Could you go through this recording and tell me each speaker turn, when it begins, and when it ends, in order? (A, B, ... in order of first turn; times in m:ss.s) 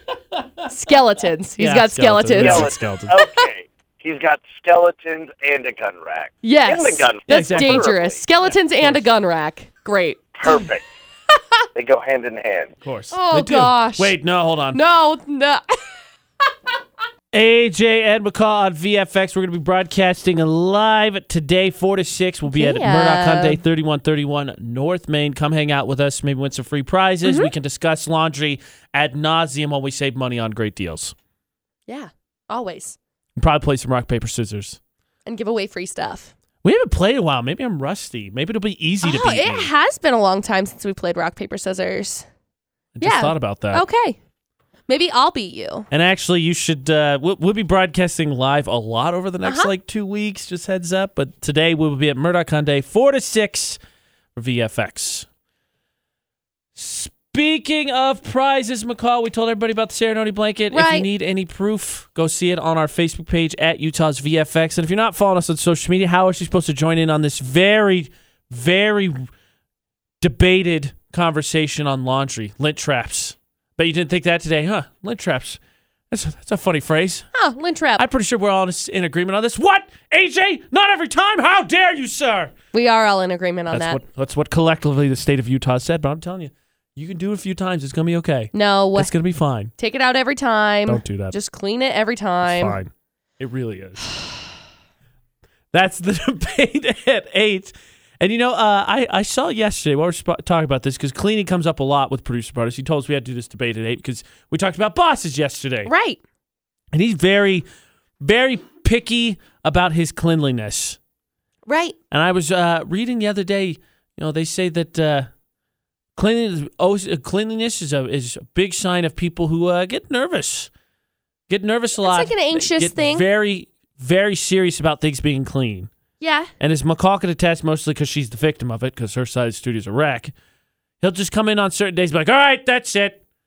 0:00.3-0:00.7 A
0:00.7-0:02.8 B
0:01.6-0:03.2 A
0:02.4-0:08.2 C
0:06.4-0:10.6 B
0:07.3-0:07.9 A
0:08.5-0:09.0 A
0:10.4-0:10.8 C
0:11.7-0:12.8 C
0:12.8-0:14.8 A
0:13.1-0:14.2 B
0:14.7-0:15.6 B
0:17.3-0:31.2 A
0:22.5-0:23.6 B
0:27.2-0:27.5 B
0:31.9-0:33.0 B
0:33.4-0:34.8 A
0:35.3-0:36.3 B
0:36.6-0:39.7 A
0:39.0-0:42.3 B
0:43.0-0:43.8 A
0:43.0-0:44.2 B
0:44.9-0:45.9 B
0:45.9-0:53.8 A
0:49.4-0:49.7 B
0:54.4-0:55.3 A
0:56.8-1:09.3 A
1:00.7-1:01.1 B
1:10.2-1:15.6 A
1:16.1-1:17.3 A
1:17.3-1:18.0 B
1:18.0-1:22.5 A
1:22.7-1:24.0 B
1:23.7-1:29.7 A
1:28.5-1:29.1 B
1:29.8-1:32.8 B
1:30.9-1:31.4 A
1:32.4-1:34.1 A
1:35.7-1:45.9 A
1:45.9-1:46.2 B
1:46.9-1:47.6 A
1:48.2-1:51.0 A
1:51.7-1:52.0 B
1:52.1-1:55.3 A
1:56.2-2:00.7 A
2:01.5-2:05.9 A
2:02.0-2:03.3 B
2:06.2-2:06.5 B
2:06.6-2:10.3 A
2:11.0-2:13.2 A